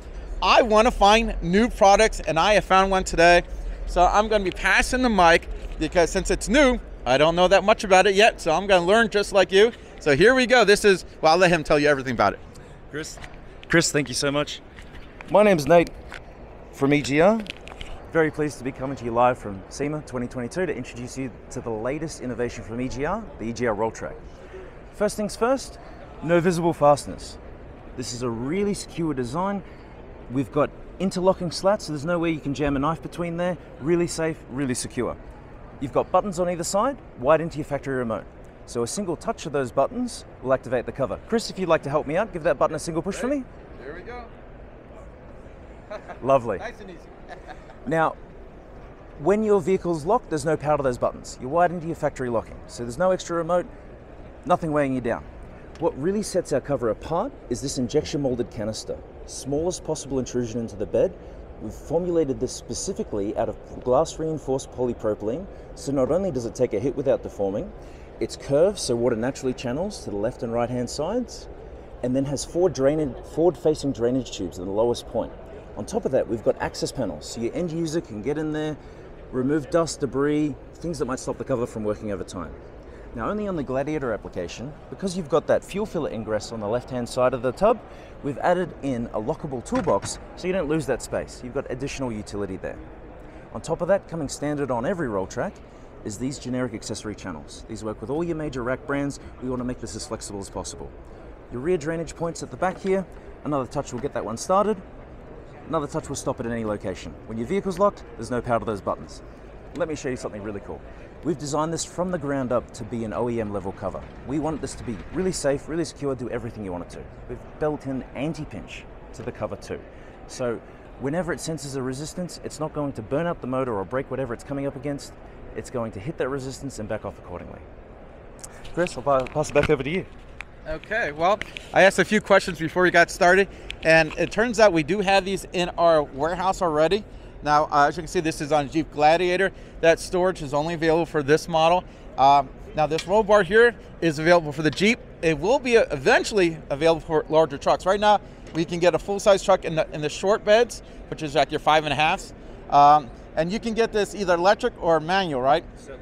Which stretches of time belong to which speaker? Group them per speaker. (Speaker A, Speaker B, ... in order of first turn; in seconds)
Speaker A: 0.4-12.4, 43.1-44.3, 46.6-47.1, 130.7-155.7
Speaker B: 12.9-14.6, 15.3-15.9, 16.7-17.4, 18.1-24.2, 24.9-27.4, 27.9-29.6, 30.3-35.2, 35.8-43.5, 46.2-46.6, 47.8-48.2, 49.2-53.7, 54.4-55.2, 55.8-71.5, 72.0-78.8, 79.3-82.5, 83.1-92.8, 93.5-100.9, 101.5-104.8, 105.7-109.2, 109.7-127.6, 128.7-130.1